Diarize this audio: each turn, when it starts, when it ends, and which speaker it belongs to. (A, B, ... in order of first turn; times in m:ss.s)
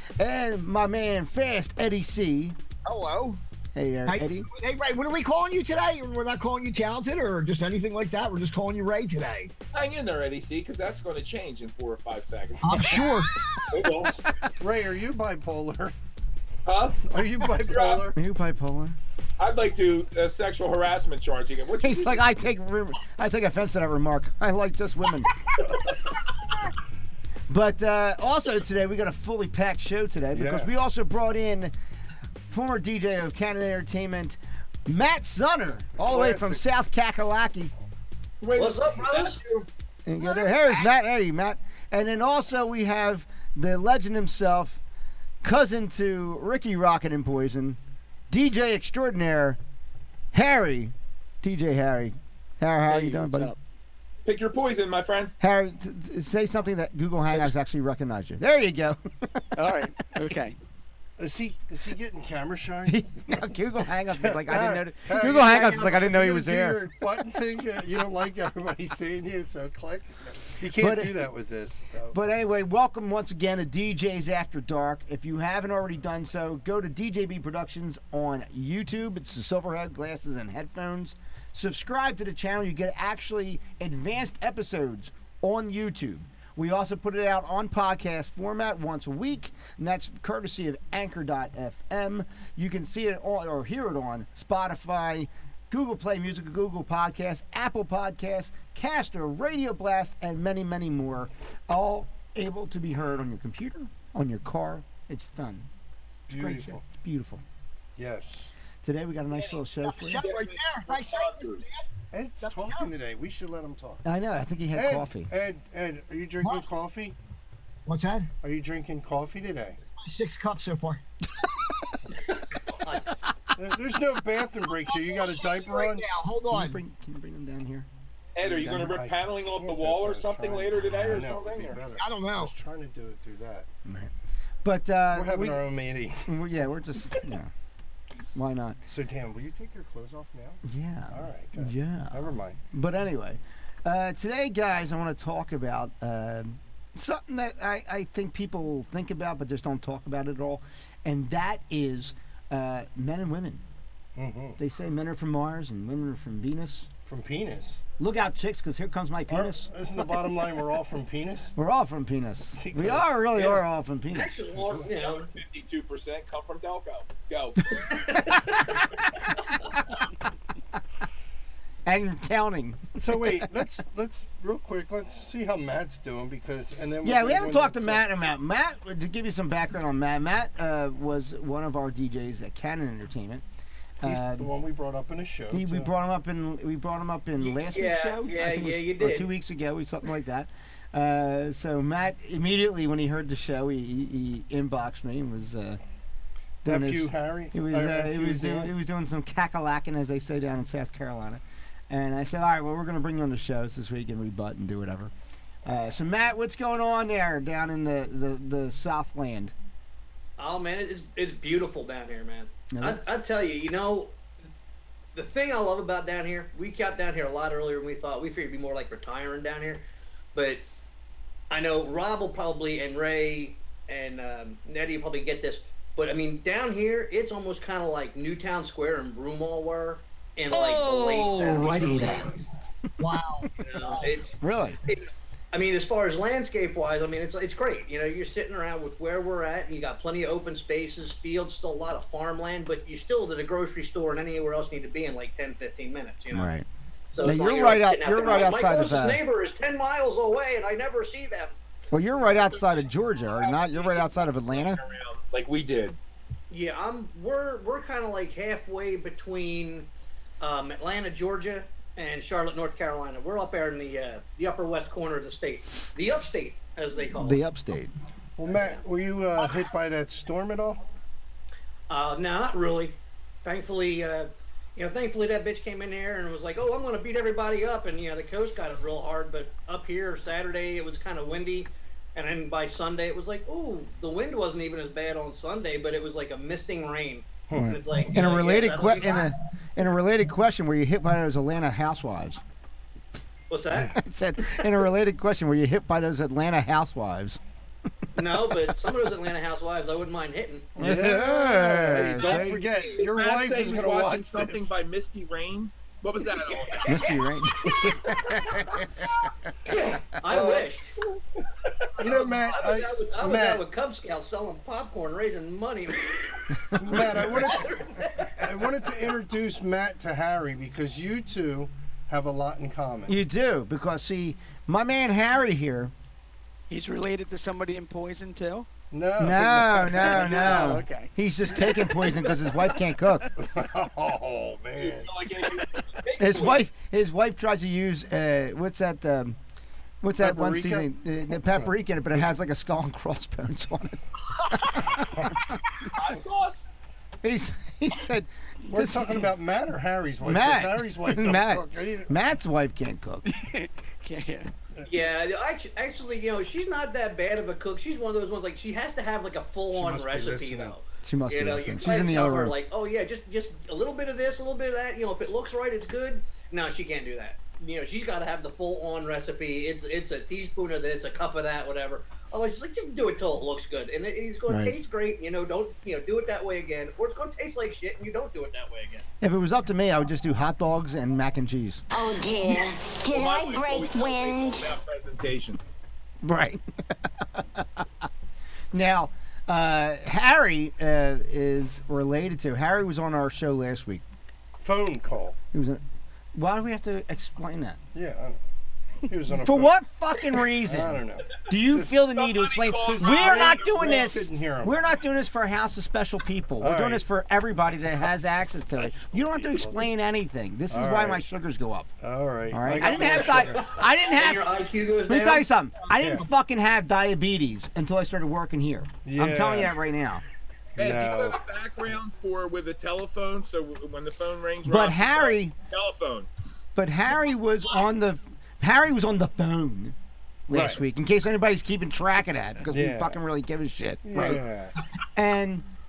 0:00.2-0:02.6 A
0:02.8-0:03.4 B
0:03.8-0:04.5 A
0:04.1-0:09.5 B
0:09.7-0:14.2 C
0:12.6-0:14.0 B
0:14.6-0:15.9 D
0:16.7-0:18.0 C
0:17.1-0:18.2 D
0:18.2-0:19.0 A
0:19.4-0:22.2 C
0:21.8-0:25.3 A
0:25.6-0:26.0 D
0:27.5-0:31.7 A
0:30.3-0:30.7 D
0:32.5-0:37.7 A
0:36.0-0:36.6 D
0:38.4-0:39.4 C
0:38.5-0:39.7 E
0:40.1-0:44.8 A
0:45.4-0:47.8 A
0:48.3-0:49.6 A
0:50.3-0:53.5 A
0:52.9-0:53.6 F
0:54.3-0:55.3 C
0:55.4-0:59.4 A
0:59.6-1:00.6 F
1:01.2-1:03.3 D
1:02.9-1:06.8 A
1:04.1-1:12.2 D
1:05.3-1:05.8 F
1:10.8-1:11.2 A
1:12.1-1:45.7 A
1:46.3-1:47.4 A
1:46.3-1:46.8 D
1:48.0-1:48.5 D
1:48.8-1:50.2 A
1:49.8-1:51.9 B
1:50.2-1:51.6 C
1:52.1-1:54.0 D
1:52.4-1:52.9 B
1:54.0-1:55.3 A
1:54.7-1:57.2 D
1:57.9-1:58.3 B
1:58.4-1:59.8 D
2:00.0-2:01.0 B
2:02.6-2:03.1 E
2:03.6-2:06.0 D
2:04.9-2:06.8 B
2:06.5-2:07.9 A
2:08.4-2:11.8 C
2:08.4-2:09.0 A
2:08.8-2:13.7 D
2:12.0-2:12.5 B
2:13.8-2:14.1 A
2:14.6-2:15.7 A
2:15.1-2:16.4 D
2:16.3-2:17.5 A
2:18.3-2:18.8 A
2:18.9-2:22.6 D
2:20.6-2:33.6 A
2:34.2-2:34.6 D
2:34.6-2:36.9 A
2:37.1-2:37.8 D
2:38.0-2:39.7 A
2:39.3-2:41.5 D
2:41.6-2:44.3 A
2:42.6-2:43.0 D
2:44.1-2:45.3 E
2:44.6-2:44.8 D
2:45.0-2:47.6 C
2:47.8-2:49.5 E
2:51.9-2:53.3 A
2:53.0-2:58.0 D
2:57.0-3:03.4 A
3:04.0-3:04.5 A
3:04.0-3:05.9 D
3:05.5-3:15.8 A
3:07.4-3:09.3 E
3:16.6-3:18.7 D
3:16.6-3:25.1 A
3:25.6-3:29.5 A
3:30.4-3:34.2 E
3:32.7-3:33.0 A
3:35.2-3:40.6 E
3:41.5-3:52.5 E
3:50.5-3:52.3 A
3:53.0-3:54.2 B
3:53.6-4:06.5 E
3:54.4-3:54.8 A
4:06.3-4:06.7 A
4:07.1-4:11.6 E
4:07.2-4:09.2 A
4:11.9-4:14.8 A
4:12.2-4:16.0 C
4:16.5-4:19.9 E
4:20.4-4:27.4 E
4:27.1-4:27.9 A
4:28.4-4:30.8 D
4:28.5-4:28.8 E
4:31.9-4:49.3 E
4:47.5-4:47.8 D
4:47.6-4:52.4 A
4:53.5-4:54.6 E
4:53.9-4:57.4 A
4:58.2-5:00.7 E
5:00.8-5:04.7 D
5:00.8-5:02.6 A
5:03.0-5:06.9 C
5:06.6-5:08.9 E
5:06.9-5:09.2 A
5:09.7-5:11.2 E
5:10.3-5:10.7 D
5:12.0-5:18.5 E
5:12.0-5:13.6 D
5:16.8-5:23.2 D
5:23.1-5:25.9 A
5:26.7-5:28.7 F
5:28.9-5:30.8 D
5:29.2-5:33.3 A
5:29.9-5:32.8 F
5:33.4-5:35.1 D
5:34.8-5:36.6 C
5:36.2-5:39.4 A
5:40.0-5:45.4 A
5:40.2-5:42.2 D
5:45.1-5:45.4 D
5:45.9-5:46.7 C
5:47.2-5:49.3 A
5:48.7-5:52.1 D
5:50.2-5:53.2 A
5:53.3-5:54.5 F
5:54.8-6:19.0 E
5:59.7-6:00.8 D
6:01.0-6:02.6 A
6:14.5-6:14.8 A
6:19.2-6:21.8 A
6:21.9-6:24.7 G
6:23.1-6:25.6 C
6:26.2-6:28.1 A
6:28.7-6:34.0 A
6:34.6-6:35.4 D
6:35.5-6:35.8 A
6:36.3-6:37.8 A
6:37.9-6:38.4 D
6:39.1-6:39.8 D
6:39.4-6:51.9 A
6:40.6-6:42.0 D
6:42.1-6:44.1 C
6:42.8-6:44.8 D
6:46.6-6:47.0 D
6:47.9-6:49.9 D
6:50.7-6:51.2 D
6:52.0-6:53.7 D
6:52.5-6:54.5 A
6:52.8-6:55.5 E
6:55.1-7:00.2 A
6:55.9-6:56.2 D
6:56.0-6:56.2 B
6:59.0-6:59.8 D
7:00.8-7:01.4 D
7:00.8-7:06.3 C
7:04.6-7:05.5 A
7:06.8-7:10.0 A
7:10.5-7:14.4 A
7:10.5-7:10.8 D
7:12.7-7:13.2 D
7:14.0-7:14.7 D
7:15.1-7:15.6 A